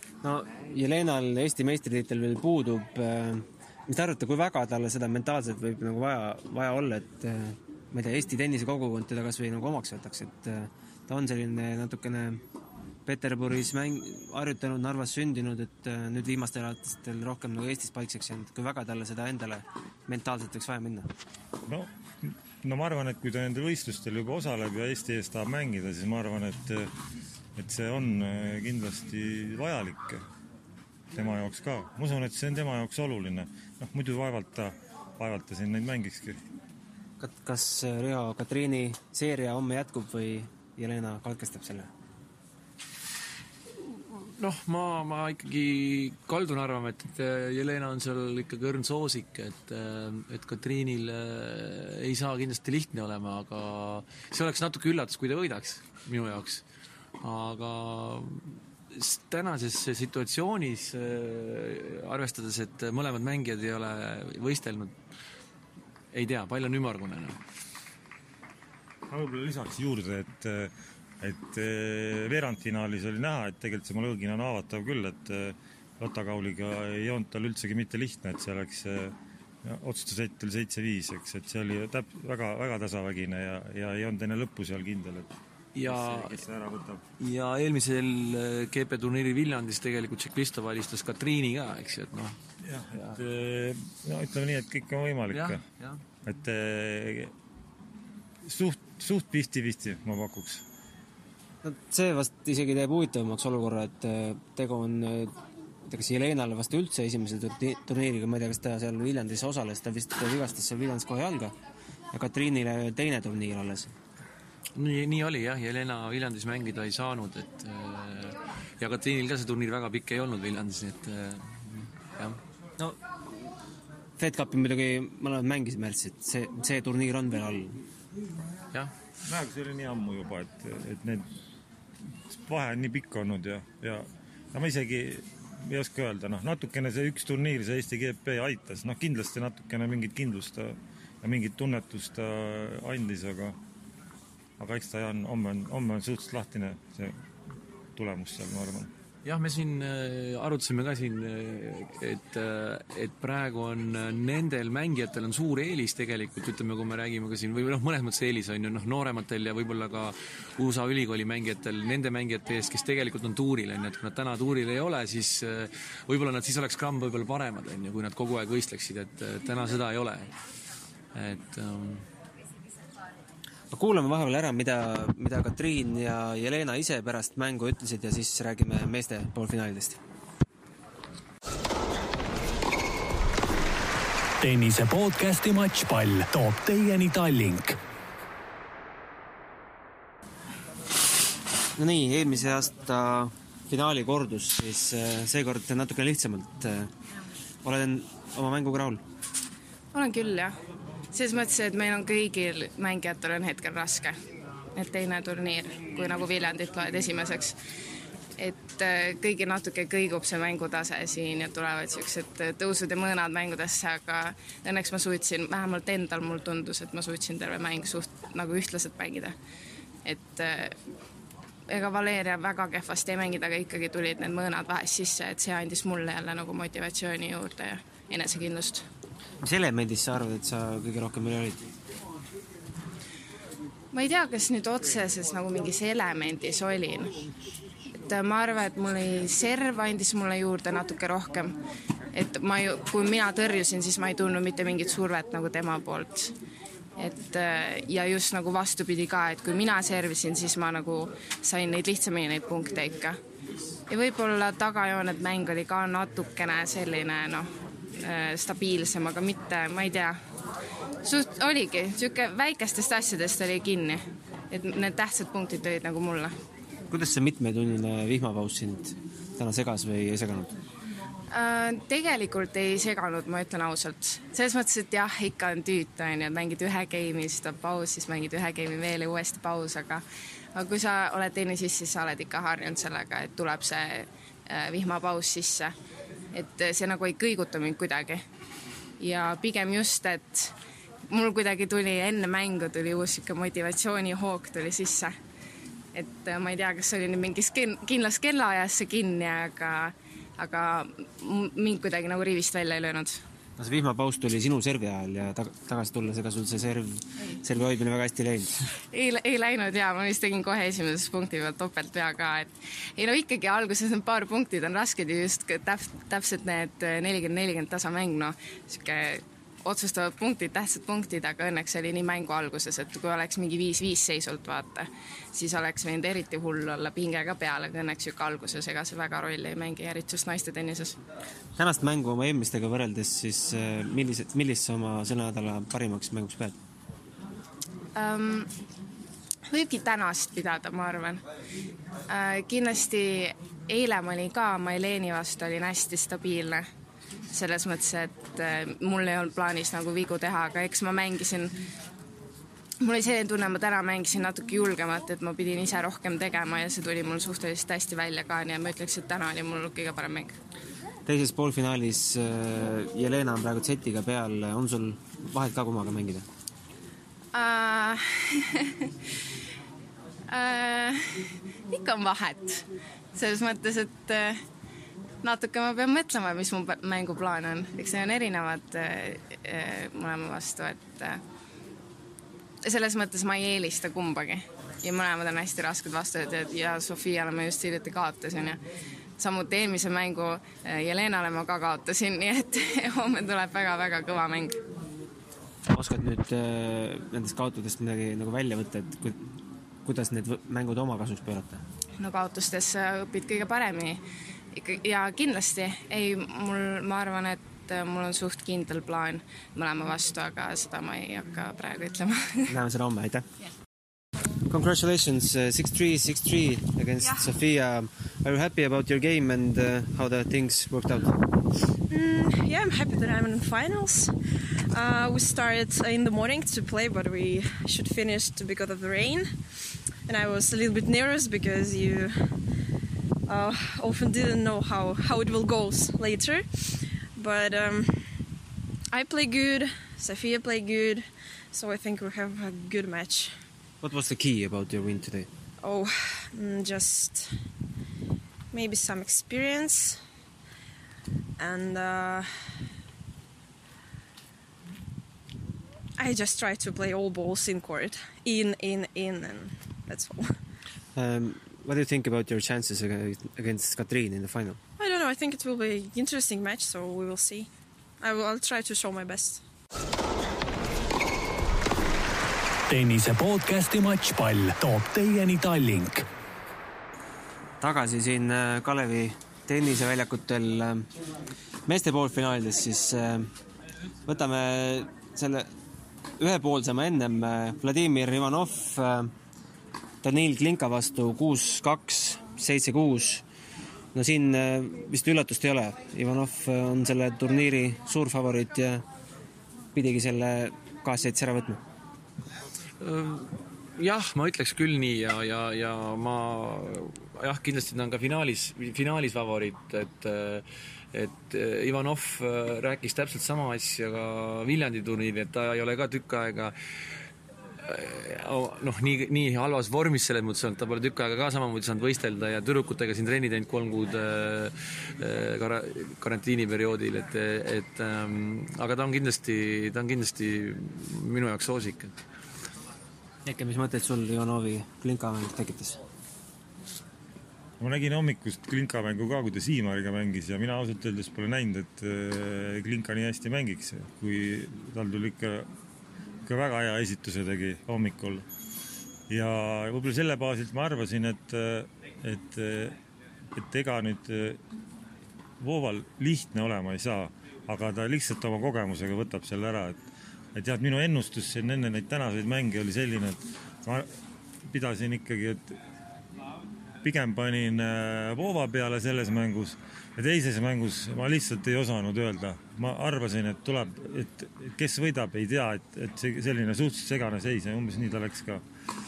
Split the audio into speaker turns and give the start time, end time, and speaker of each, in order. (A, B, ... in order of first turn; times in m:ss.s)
0:00.2-0:12.4 A
0:13.0-0:21.1 A
0:21.6-0:26.9 B
0:27.6-0:30.2 B
0:31.1-0:36.4 B
0:37.2-0:41.9 A
0:44.1-0:56.6 C
0:57.2-1:04.9 C
1:06.1-1:07.4 C
1:09.1-1:27.0 B
1:25.7-1:26.4 C
1:27.2-1:32.4 C
1:32.6-1:35.6 B
1:35.3-1:36.0 C
1:36.2-1:37.3 B
1:38.4-1:40.6 B
1:41.6-1:45.3 A
1:45.8-1:51.5 A
1:52.1-1:53.9 A
1:54.7-2:02.4 C
2:04.2-2:07.8 A
2:09.2-2:11.3 B
2:12.3-2:23.6 B
2:24.6-2:27.2 B
2:28.0-2:28.9 B
2:29.2-2:50.3 C
2:51.1-2:52.0 C
2:53.7-3:00.0 A
3:04.4-3:07.8 D
3:11.7-3:16.9 A
3:17.6-3:19.0 A
3:19.9-3:20.5 E
3:21.1-3:24.2 E
3:24.7-3:27.6 E
3:28.4-3:39.3 E
3:40.0-3:40.8 E
3:41.7-3:48.8 E
3:49.4-3:51.6 A
3:53.9-3:57.2 E
3:57.9-4:01.6 E
4:02.1-4:06.3 E
4:07.0-4:13.2 E
4:13.9-4:20.2 E
4:21.0-4:26.3 E
4:26.9-4:30.6 A
4:31.3-4:40.0 E
4:40.5-4:45.7 E
4:46.3-4:48.2 E
4:49.0-4:50.5 E
4:51.1-4:55.1 E
4:55.9-5:03.2 E
5:03.6-5:08.6 A
5:08.9-5:31.0 E
5:31.6-5:36.6 A
5:38.0-5:38.5 E
5:39.5-5:41.2 E
5:42.1-5:46.6 E
5:47.3-5:51.6 E
5:52.8-6:00.3 E
6:01.0-6:06.2 A
6:07.3-6:08.9 E
6:10.3-6:14.4 E
6:15.2-6:21.2 E
6:22.6-6:28.6 E
6:29.2-6:34.6 E
6:35.7-6:39.3 A
6:39.8-6:41.6 A
6:42.0-6:44.0 E
6:44.5-6:52.5 E
6:52.5-6:53.2 A
6:54.4-7:01.2 A
7:01.9-7:09.4 F
7:10.0-7:12.4 F
7:13.3-7:18.2 F
7:18.9-7:23.3 F
7:23.8-7:25.3 A
7:25.6-7:27.3 F
7:28.5-7:30.0 F
7:31.4-7:32.5 F
7:36.0-7:40.4 F
7:40.9-7:44.6 A
7:44.8-7:47.5 F
7:48.0-7:49.4 F
7:52.7-7:56.0 D
7:57.6-8:00.9 A
8:01.6-8:03.3 A
8:04.0-8:05.5 A
8:06.2-8:09.1 A
8:10.0-8:13.2 A
8:13.9-8:18.8 A
8:19.7-8:21.6 A
8:22.8-8:36.5 C
8:37.6-8:51.9 C
8:53.2-8:55.8 A
8:57.6-9:05.5 B
9:06.2-9:08.2 B
9:09.1-9:12.8 B
9:13.3-9:14.4 B
9:15.4-9:19.8 B
9:20.3-9:23.9 B
9:24.4-9:25.6 B
9:26.8-9:38.4 B